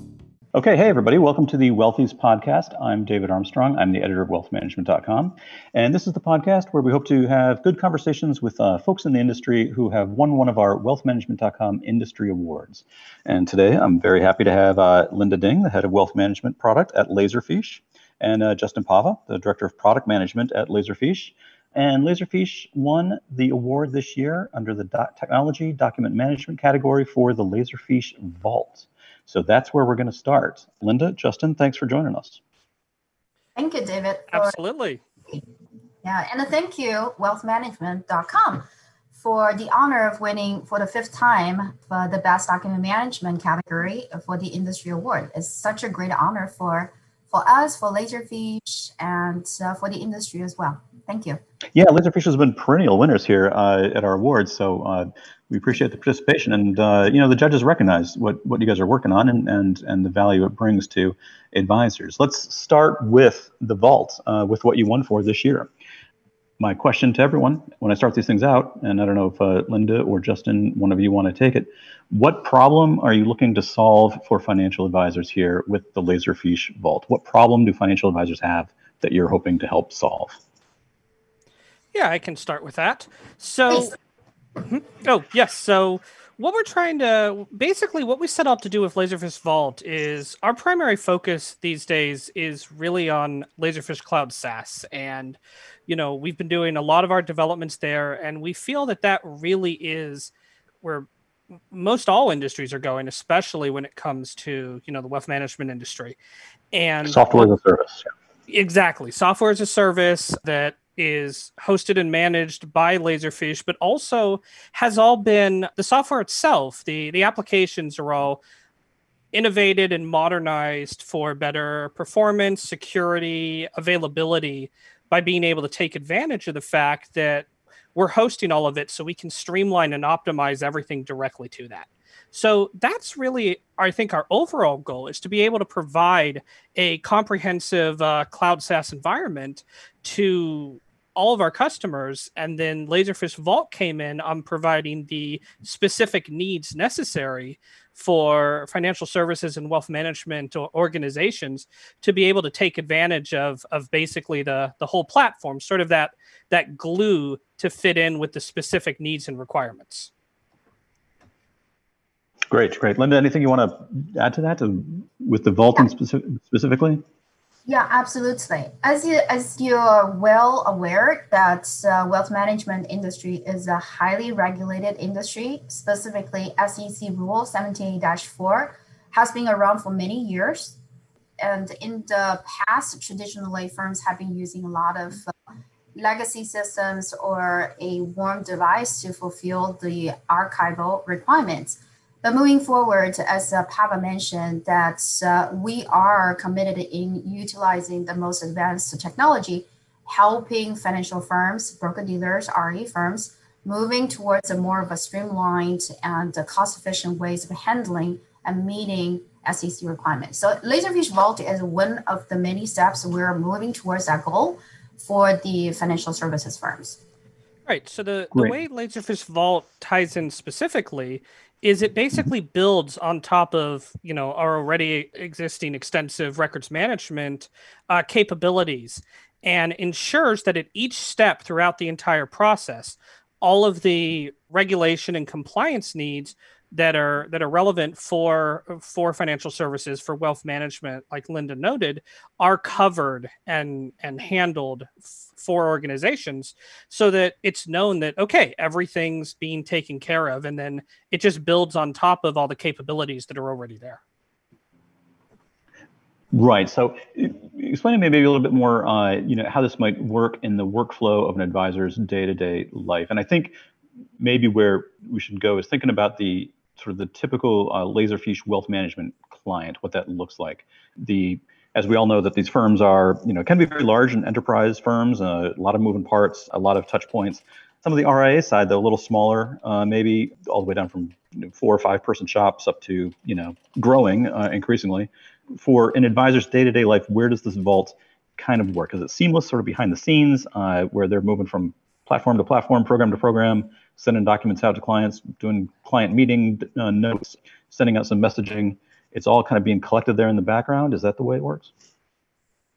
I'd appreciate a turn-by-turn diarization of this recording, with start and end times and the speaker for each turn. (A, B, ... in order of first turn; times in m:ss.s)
0:00.5-0:32.4 A
0:33.6-0:34.6 B
0:34.3-0:35.0 C
0:36.0-0:51.4 B
0:51.7-1:05.7 A
1:06.6-1:20.4 A
1:21.9-1:23.9 C
1:24.6-1:40.3 C
1:40.8-1:41.1 C
1:41.7-1:46.2 C
1:46.7-1:47.5 C
1:47.0-1:48.1 A
1:48.5-1:58.4 C
1:59.3-2:40.1 C
2:42.5-2:47.0 A
2:47.7-3:00.8 B
3:01.4-3:05.3 B
3:05.9-3:37.0 B
3:37.6-4:14.0 C
4:16.3-4:23.5 A
4:24.2-5:01.7 A